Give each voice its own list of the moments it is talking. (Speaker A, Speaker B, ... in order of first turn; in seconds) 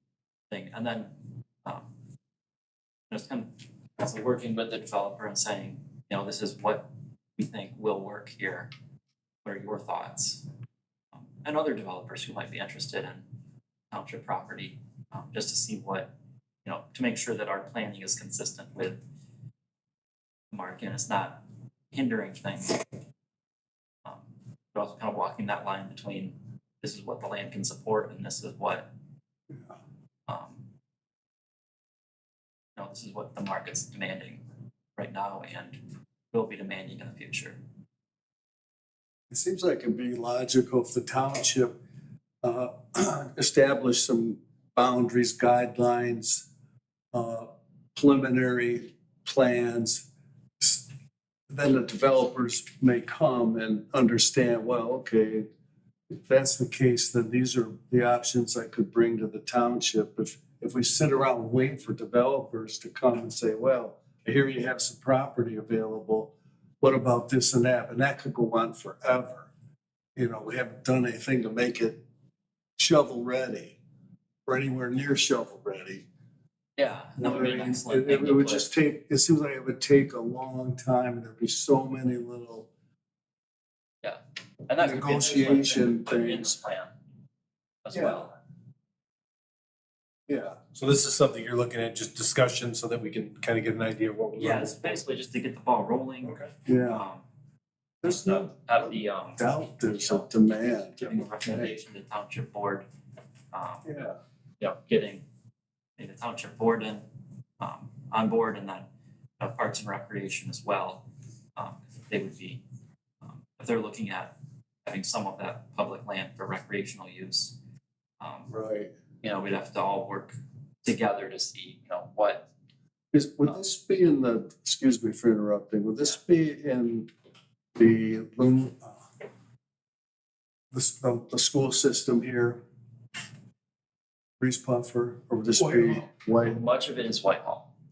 Speaker A: 0.5-1.1, 3.1-8.7, 9.4-10.4, 11.1-13.2, 13.9-16.1, 16.6-19.0, 20.5-22.8, 24.0-28.9, 30.3-30.6, 32.8-34.4, 35.0-35.8, 36.3-37.6, 76.8-78.7, 84.0-86.9, 87.8-88.3, 94.4-97.2, 98.0-100.2, 101.0-102.8, 103.5-103.8, 104.6-105.2, 106.0-107.0, 107.6-108.9, 109.4-111.0, 111.5-112.6, 113.2-117.5, 118.2-118.5, 119.2-122.5, 136.4-137.7
Speaker B: 39.3-41.8, 42.4-46.5, 47.1-50.0, 50.6-50.9, 51.5-55.5, 56.1-69.5, 70.2-72.0, 72.8-73.8, 74.5-76.1, 77.2-82.7, 84.8-86.5, 96.7-97.0, 98.0-101.7, 103.8-104.2, 118.5-118.9, 123.1-127.1, 127.8-128.9, 130.7-132.6, 134.4-136.6
Speaker C: 90.5-95.0